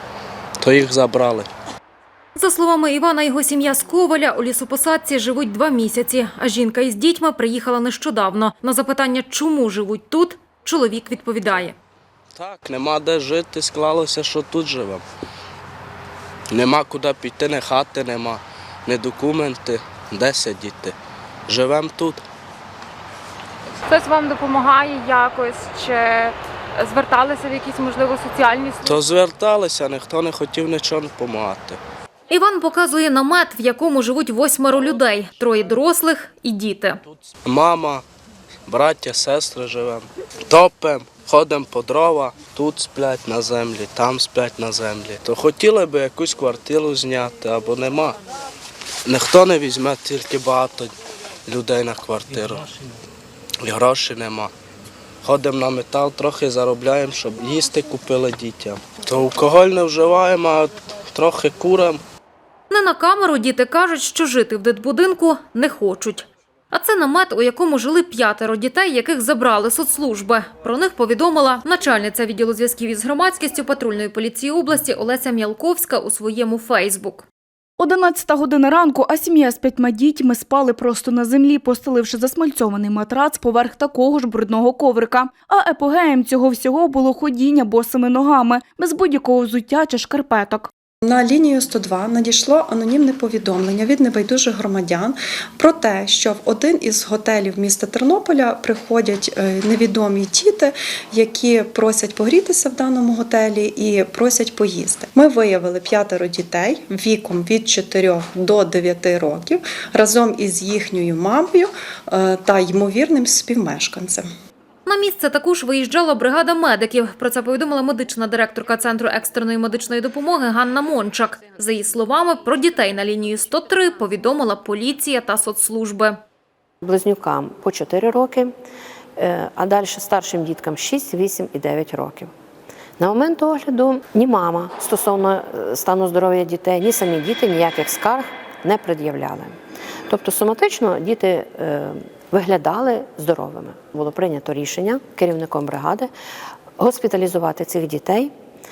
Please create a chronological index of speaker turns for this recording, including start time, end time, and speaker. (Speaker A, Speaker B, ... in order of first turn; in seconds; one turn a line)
Speaker A: 0.6-1.5
Speaker B: 2.4-11.8
Speaker A: 12.3-15.0
Speaker A: 16.5-20.9
Speaker A: 21.5-22.2
Speaker C: 23.8-29.0
Speaker A: 28.8-31.8
Speaker B: 32.3-37.0
Speaker A: 37.4-38.0
Speaker A: 38.7-48.1
Speaker A: 49.0-50.9
Speaker A: 51.5-52.7
Speaker A: 53.6-54.5
Speaker A: 55.2-62.0
Speaker B: 62.7-77.3
Speaker D: 77.8-90.7
Speaker E: 91.0-114.3
Speaker B: 114.8-126.2
Speaker F: 126.8-128.5
Speaker F: 129.2-132.3
Speaker F: 133.0-139.6
Speaker F: 140.1-146.1
Speaker F: 146.8-148.3